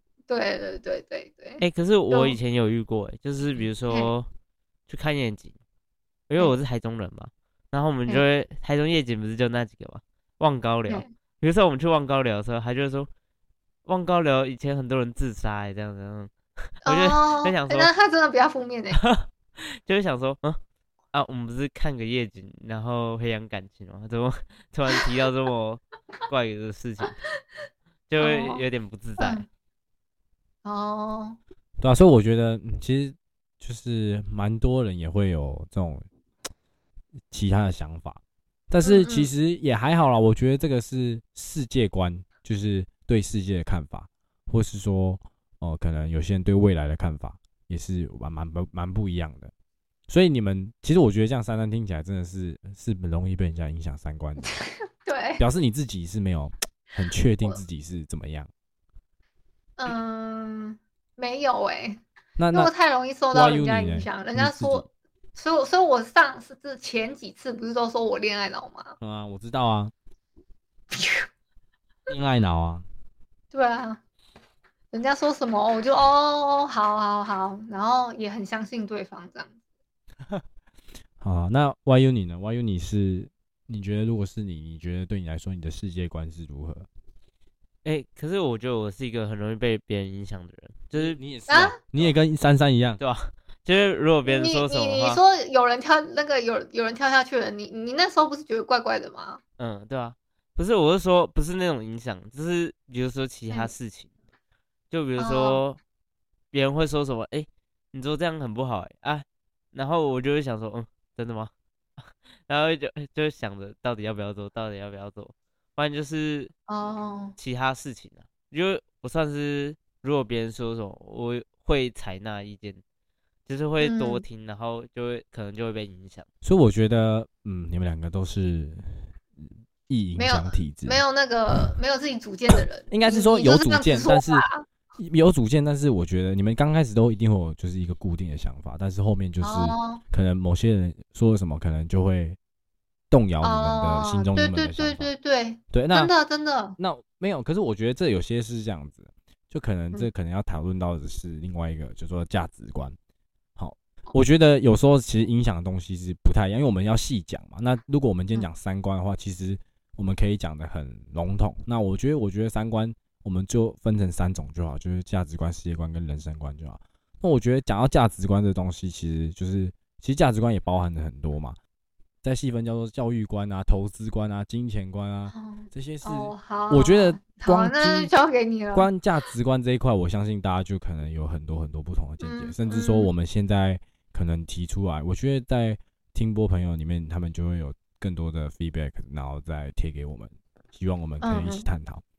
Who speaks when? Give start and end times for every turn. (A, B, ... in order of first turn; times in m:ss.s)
0:00.3-0:02.4 A
0:01.6-0:04.3 B
0:04.9-0:05.6 B
0:06.3-0:13.1 B
0:13.8-0:17.9 B
0:16.8-0:19.0 A
0:18.9-0:20.6 B
0:21.1-0:27.2 B
0:28.1-0:29.4 B
0:28.2-0:28.6 A
0:29.2-0:29.5 A
0:30.6-0:31.4 A
0:31.8-0:36.1 C
0:37.3-0:49.5 C
0:38.8-0:39.3 A
0:50.1-0:54.6 C
0:54.6-0:55.4 A
0:55.4-0:58.5 C
0:59.8-1:02.0 A
1:02.4-1:02.7 C
1:02.5-1:09.0 A
1:03.3-1:04.9 C
1:09.0-1:09.9 C
1:10.9-1:11.3 A
1:12.1-1:12.8 C
1:13.5-1:14.0 A
1:14.9-1:19.5 A
1:21.2-1:26.9 C
1:27.8-1:31.2 B
1:30.9-1:33.0 C
1:31.5-1:31.8 A
1:33.0-1:35.2 B
1:34.3-1:39.4 A
1:39.6-1:44.1 B
1:44.9-1:45.8 B
1:45.2-1:45.6 A
1:46.5-1:56.5 B
1:56.7-1:57.4 A
1:57.4-2:02.8 B
2:03.5-2:06.3 B
2:03.8-2:04.2 A
2:06.4-2:11.0 C
2:10.2-2:14.6 A
2:12.8-2:22.4 C
2:19.4-2:20.0 A
2:23.1-2:25.1 C
2:23.4-2:26.8 A
2:25.7-2:26.1 C
2:26.8-2:33.0 C
2:33.6-2:51.6 C
2:52.2-2:58.1 C
2:55.3-2:58.9 A
2:58.7-3:12.0 C
3:02.2-3:03.1 A
3:11.2-3:11.7 A